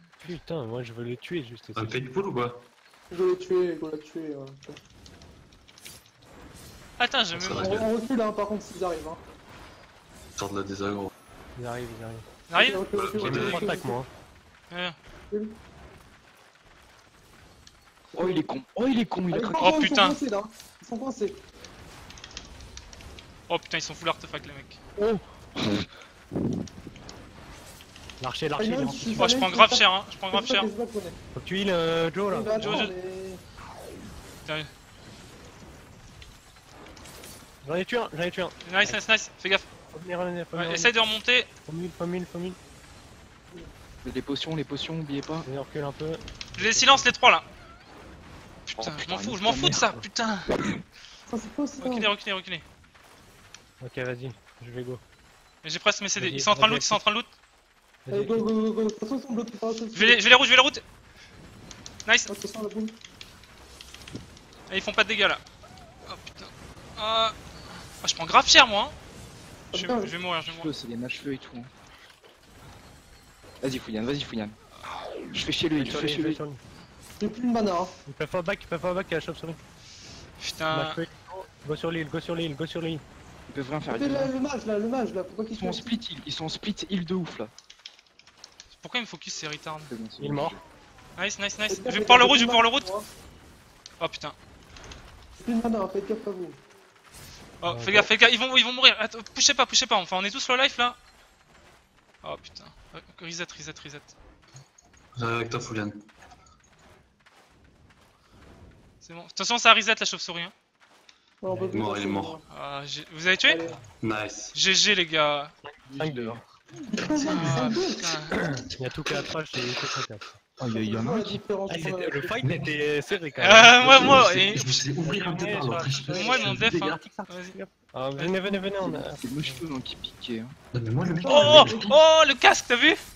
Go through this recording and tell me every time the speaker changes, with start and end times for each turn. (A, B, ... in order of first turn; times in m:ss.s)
0:00.2-0:02.1 A
0:01.7-0:02.6 B
0:03.1-0:04.8 C
0:07.0-0:07.8 D
0:07.3-0:07.9 B
0:07.5-0:09.2 C
0:10.4-0:11.1 B
0:11.6-0:12.2 A
0:12.5-0:13.4 D
0:12.5-0:14.0 C
0:12.9-0:13.7 B
0:13.1-0:14.1 A
0:14.7-0:15.0 D
0:15.3-0:15.6 C
0:18.1-0:19.8 E
0:19.3-0:21.4 C
0:19.6-0:20.2 D
0:23.5-0:24.8 D
0:25.6-0:25.9 E
0:28.2-0:29.3 A
0:28.6-0:31.2 C
0:29.1-0:30.7 D
0:31.3-0:32.8 A
0:32.2-0:33.4 C
0:32.6-0:32.9 D
0:34.4-0:34.7 D
0:37.6-0:39.0 A
0:38.6-0:39.7 D
0:39.9-0:40.9 A
0:40.5-0:41.5 D
0:41.6-0:42.6 A
0:44.0-0:45.5 E
0:45.4-0:47.1 A
0:46.5-0:47.4 D
0:48.7-0:50.5 D
0:48.8-0:50.0 E
0:51.3-0:52.1 C
0:51.8-0:52.6 D
0:53.8-0:55.0 A
0:55.6-0:57.3 D
0:56.2-0:57.0 A
0:58.0-0:58.5 A
0:58.1-1:00.2 C
0:59.9-1:00.8 D
1:02.0-1:02.3 D
1:02.3-1:03.0 C
1:04.7-1:05.4 D
1:06.1-1:07.4 D
1:08.0-1:08.9 D
1:09.7-1:10.7 D
1:09.7-1:10.1 C
1:10.4-1:11.7 E
1:13.6-1:14.6 E
1:15.3-1:16.4 E
1:15.7-1:16.6 A
1:17.2-1:18.0 C
1:18.1-1:19.6 A
1:20.4-1:21.0 D
1:20.7-1:23.0 A
1:23.5-1:24.3 E
1:23.8-1:26.0 C
1:25.6-1:27.5 E
1:28.7-1:29.9 D
1:29.9-1:30.6 E
1:30.2-1:30.6 A
1:31.2-1:32.9 D
1:31.7-1:33.1 C
1:34.0-1:34.4 D
1:35.4-1:36.6 C
1:37.6-1:41.0 D
1:37.7-1:38.1 A
1:42.2-1:44.1 D
1:45.2-1:46.0 B
1:49.0-1:50.5 D
1:51.4-1:52.4 C
1:51.5-1:51.8 A
1:51.7-1:52.4 B
1:52.5-1:53.6 D
1:53.5-1:53.8 C
1:53.9-1:54.6 B
1:54.5-1:55.5 D
1:55.6-1:56.4 A
1:55.9-1:56.4 E
1:56.9-1:58.2 C
1:57.2-1:58.4 D
1:58.8-2:00.4 A
2:00.6-2:01.4 E
2:00.7-2:02.4 C
2:01.7-2:09.6 A
2:02.4-2:02.8 B
2:03.4-2:04.8 D
2:03.9-2:07.0 B
2:06.0-2:07.6 D
2:08.5-2:10.6 E
2:10.7-2:12.0 B
2:11.0-2:11.9 C
2:11.2-2:13.0 D